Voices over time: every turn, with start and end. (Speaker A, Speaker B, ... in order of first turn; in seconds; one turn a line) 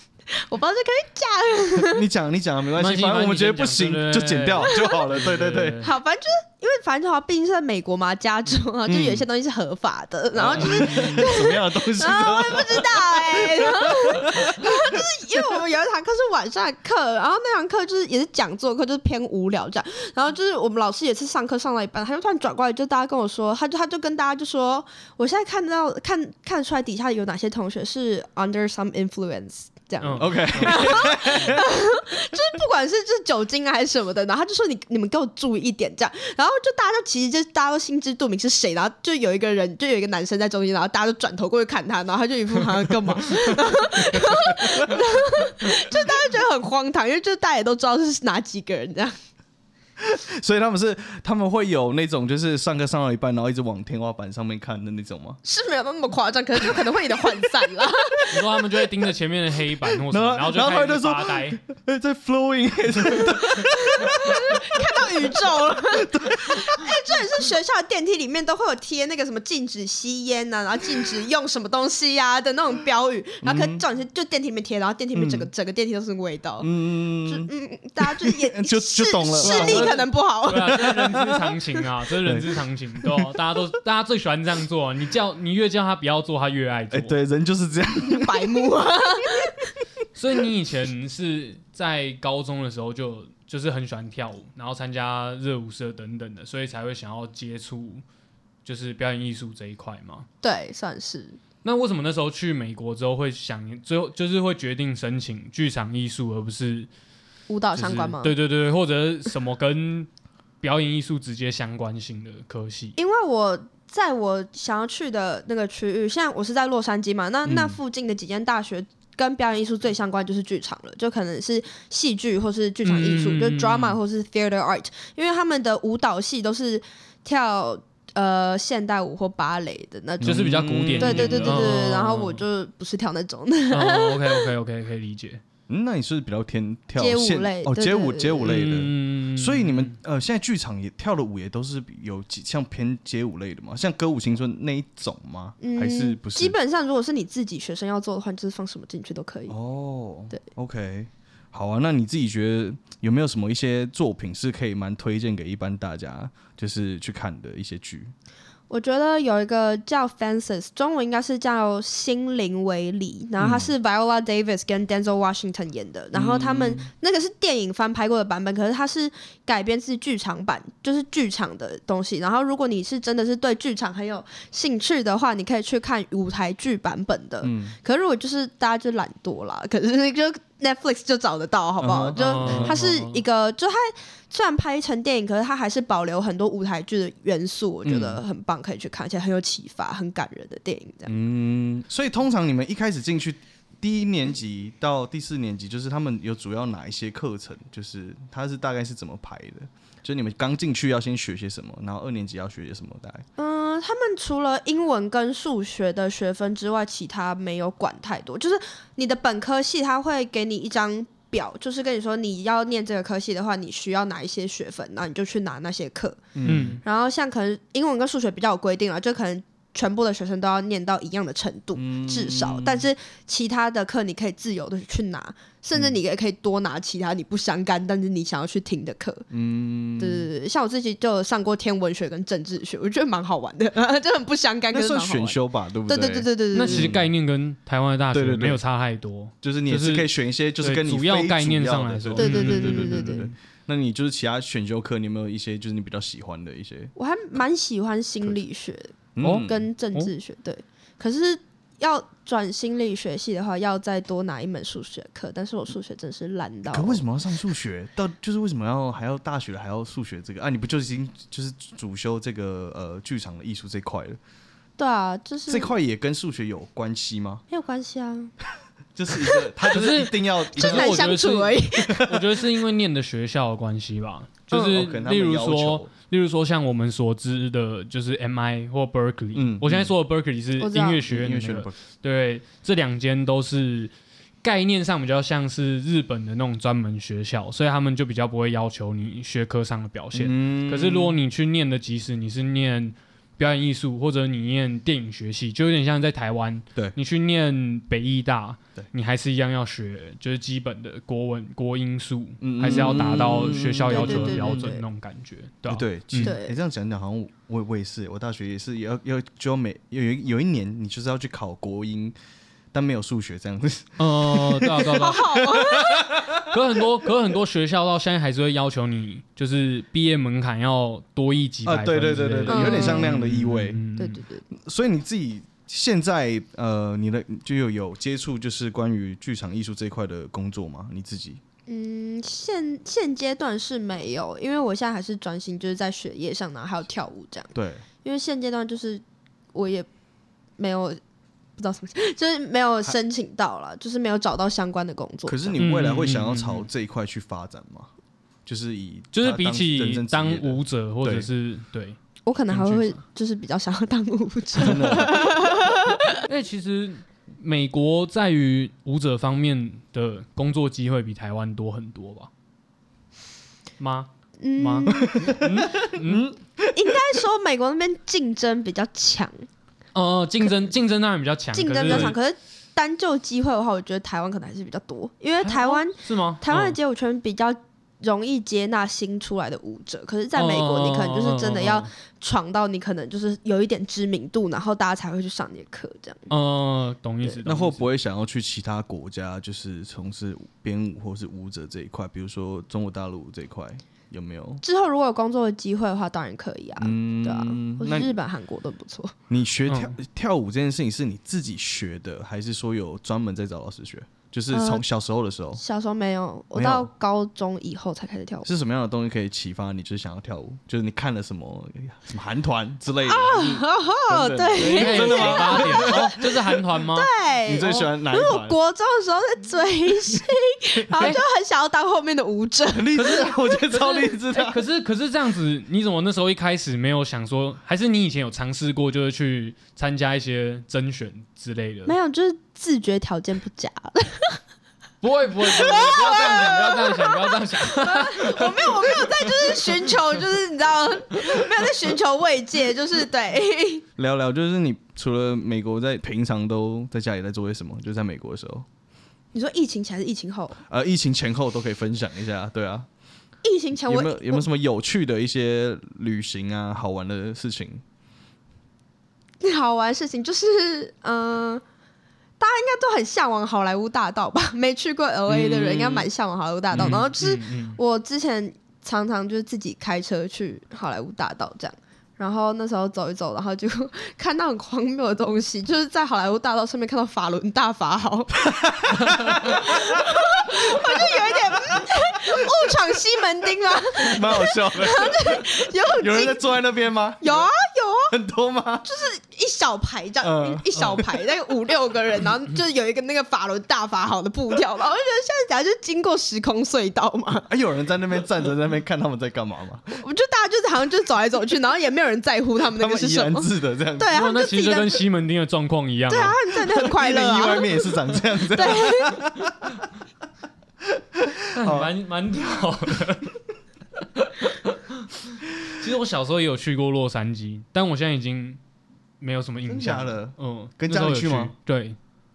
Speaker A: 0.3-2.0
Speaker B: 1.8-5.8
Speaker C: 2.8-5.9
Speaker A: 5.8-49.1
Speaker B: 8.9-9.3
Speaker B: 10.3-15.6
Speaker C: 10.6-11.3
Speaker C: 30.0-31.1
Speaker B: 30.2-31.7
Speaker B: 50.0-55.4
Speaker A: 55.4-58.6
Speaker C: 58.3-61.6
Speaker B: 60.1-65.4
Speaker A: 63.2-76.7
Speaker B: 65.9-66.9
Speaker B: 73.4-73.8
Speaker B: 75.1-75.5
Speaker B: 76.6-77.5
Speaker A: 77.2-81.3
Speaker B: 78.2-80.0
Speaker C: 79.4-87.1
Speaker B: 80.9-81.3
Speaker B: 82.2-83.3
Speaker B: 86.9-88.7
Speaker A: 88.1-89.7
Speaker C: 90.2-98.0
Speaker C: 98.7-100.3
Speaker A: 100.4-101.4
Speaker C: 101.6-106.9
Speaker A: 107.5-108.3
Speaker C: 107.8-110.1
Speaker C: 110.6-113.0
Speaker A: 113.0-134.5
Speaker B: 117.5-117.8
Speaker C: 122.8-124.0
Speaker B: 130.2-131.8
Speaker C: 130.2-132.4
Speaker C: 133.7-135.4
Speaker B: 135.7-146.6
Speaker A: 137.0-138.5
Speaker C: 138.4-139.9
Speaker A: 145.6-149.6
Speaker B: 149.5-158.1
Speaker A: 158.7-191.1
Speaker B: 163.4-163.7
Speaker B: 166.1-166.9
Speaker B: 177.4-177.8
Speaker B: 181.8-182.7
Speaker C: 182.2-183.2
Speaker B: 187.8-188.2
Speaker B: 191.1-203.3
Speaker A: 203.4-229.3
Speaker B: 216.3-216.8
Speaker C: 216.5-216.8
Speaker B: 221.8-222.9
Speaker B: 229.3-230.3
Speaker A: 230.0-236.9
Speaker B: 234.7-237.1
Speaker C: 236.5-243.3
Speaker B: 238.1-238.6
Speaker B: 239.4-246.9
Speaker A: 242.2-243.3
Speaker A: 247.0-248.9
Speaker B: 249.2-249.7
Speaker C: 249.2-250.1
Speaker A: 249.5-257.0
Speaker B: 256.7-264.2
Speaker A: 264.8-265.7
Speaker B: 265.5-267.4
Speaker A: 267.5-268.3
Speaker B: 268.9-271.1
Speaker C: 269.6-283.9
Speaker A: 270.6-272.3
Speaker B: 274.5-275.9
Speaker B: 279.4-279.9
Speaker A: 280.6-281.0
Speaker B: 281.1-281.8
Speaker C: 284.4-306.4
Speaker B: 290.1-291.2
Speaker B: 302.4-304.7
Speaker A: 302.6-303.3
Speaker A: 303.9-304.8
Speaker B: 305.7-312.2
Speaker A: 306.2-306.5
Speaker B: 312.7-316.9
Speaker C: 314.0-315.2
Speaker A: 314.9-316.1
Speaker C: 316.4-324.2
Speaker B: 321.6-323.8
Speaker A: 322.5-323.1
Speaker A: 324.0-324.5
Speaker B: 324.5-331.4
Speaker A: 331.7-339.0
Speaker B: 337.5-337.9
Speaker A: 339.5-339.9
Speaker A: 340.6-341.0
Speaker A: 341.6-345.6
Speaker B: 345.3-347.9
Speaker C: 345.6-346.7
Speaker B: 348.5-351.3
Speaker C: 349.1-352.0
Speaker A: 352.2-356.2
Speaker B: 352.5-353.0
Speaker B: 354.6-355.4
Speaker C: 356.3-362.3
Speaker C: 363.8-366.3
Speaker A: 364.4-365.4
Speaker B: 364.9-367.0
Speaker A: 366.8-369.5
Speaker C: 369.9-372.2
Speaker A: 371.5-386.3
Speaker B: 371.9-372.2
Speaker C: 375.4-376.8
Speaker C: 380.4-381.9
Speaker C: 386.3-387.9
Speaker B: 387.4-394.6
Speaker A: 394.6-399.1
Speaker B: 396.8-398.1
Speaker B: 399.3-405.6
Speaker C: 399.7-399.9
Speaker A: 404.5-404.8
Speaker A: 405.6-408.5
Speaker B: 406.6-406.9
Speaker B: 408.4-416.4
Speaker A: 413.1-423.8
Speaker C: 414.6-417.1
Speaker B: 417.5-418.6
Speaker C: 417.6-417.9
Speaker B: 422.7-424.6
Speaker C: 423.0-431.9
Speaker A: 431.9-434.4
Speaker C: 435.0-439.6
Speaker A: 435.4-443.8
Speaker B: 444.0-448.7
Speaker A: 449.3-450.6
Speaker B: 450.7-452.9
Speaker A: 453.4-454.4
Speaker B: 453.8-457.8
Speaker A: 459.4-461.6
Speaker A: 462.4-478.4
Speaker B: 465.3-466.1
Speaker C: 466.7-467.8
Speaker B: 478.5-482.5
Speaker A: 479.2-486.4
Speaker B: 484.0-487.5
Speaker A: 487.2-488.1
Speaker B: 488.1-488.9
Speaker A: 488.8-497.5
Speaker B: 490.2-491.2
Speaker B: 497.5-500.0
Speaker A: 500.0-505.0
Speaker B: 502.7-504.1
Speaker C: 504.1-506.4
Speaker A: 506.1-507.7
Speaker B: 506.9-509.7
Speaker A: 508.5-509.2
Speaker B: 510.8-511.9
Speaker C: 511.6-513.4
Speaker C: 514.2-515.1
Speaker C: 515.7-518.6
Speaker C: 519.2-522.0
Speaker B: 519.7-521.5